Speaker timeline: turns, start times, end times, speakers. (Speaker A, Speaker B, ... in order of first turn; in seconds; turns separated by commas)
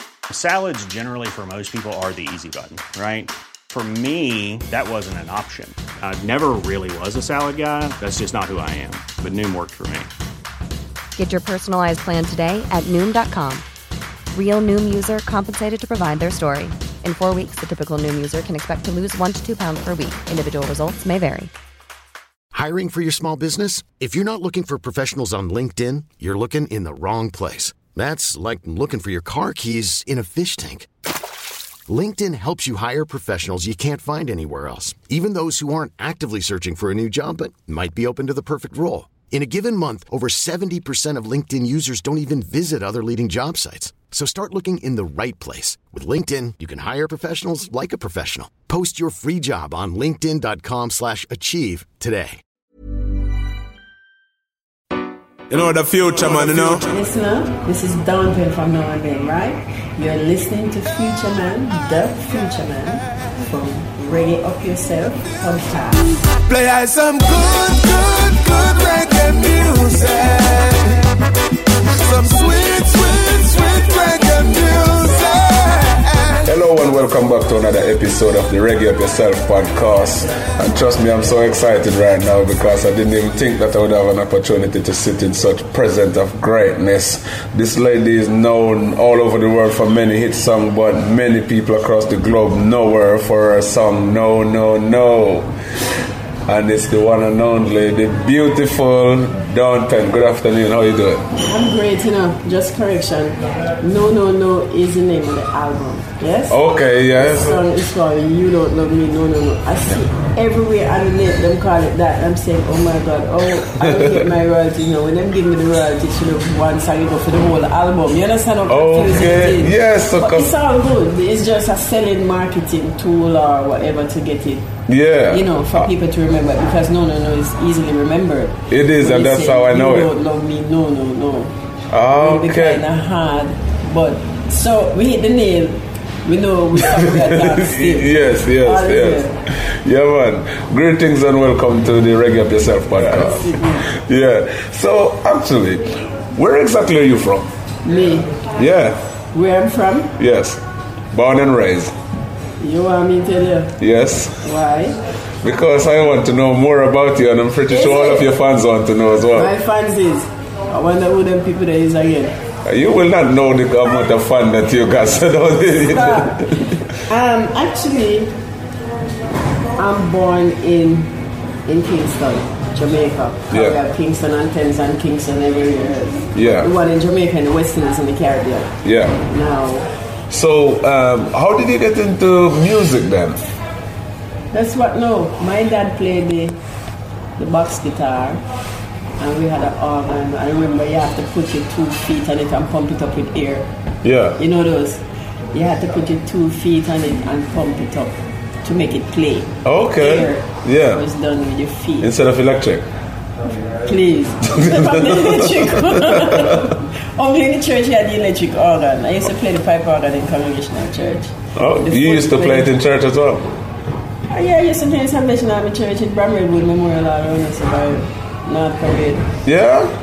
Speaker A: 0.3-10.1, Speaker B: 11.2-13.6, Speaker B: 14.3-21.5, Speaker C: 22.5-30.9, Speaker C: 31.9-52.4, Speaker D: 55.5-56.8, Speaker E: 56.5-66.2, Speaker F: 66.5-71.0, Speaker F: 72.0-76.3, Speaker D: 76.4-95.5, Speaker D: 96.5-101.2, Speaker E: 101.4-106.6, Speaker D: 106.5-107.6, Speaker E: 107.1-124.7, Speaker D: 118.7-120.5, Speaker D: 124.9-125.9, Speaker E: 125.3-131.5, Speaker D: 128.7-130.1, Speaker D: 131.9-132.8, Speaker E: 132.2-139.4, Speaker D: 136.9-147.5, Speaker E: 142.9-143.9, Speaker E: 147.8-148.4, Speaker D: 148.6-149.0, Speaker E: 149.3-150.1, Speaker D: 150.2-150.6, Speaker D: 151.1-151.9, Speaker E: 152.6-153.8, Speaker D: 153.8-154.4, Speaker E: 154.4-155.0, Speaker D: 155.4-159.5, Speaker E: 157.7-158.3, Speaker E: 159.3-162.3, Speaker D: 162.7-166.6, Speaker E: 165.8-166.4, Speaker E: 167.0-168.3, Speaker E: 169.8-178.7, Speaker D: 173.5-173.8, Speaker D: 176.3-176.7, Speaker D: 178.8-179.2, Speaker E: 179.2-179.9, Speaker D: 180.3-183.4, Speaker E: 184.5-186.6, Speaker E: 187.4-188.4, Speaker E: 189.2-193.7, Speaker D: 194.0-194.4, Speaker E: 194.4-202.1, Speaker D: 199.6-201.0, Speaker D: 202.0-202.9, Speaker E: 203.8-212.7, Speaker D: 204.5-205.9, Speaker D: 211.5-213.5, Speaker E: 214.3-219.3, Speaker D: 219.4-219.9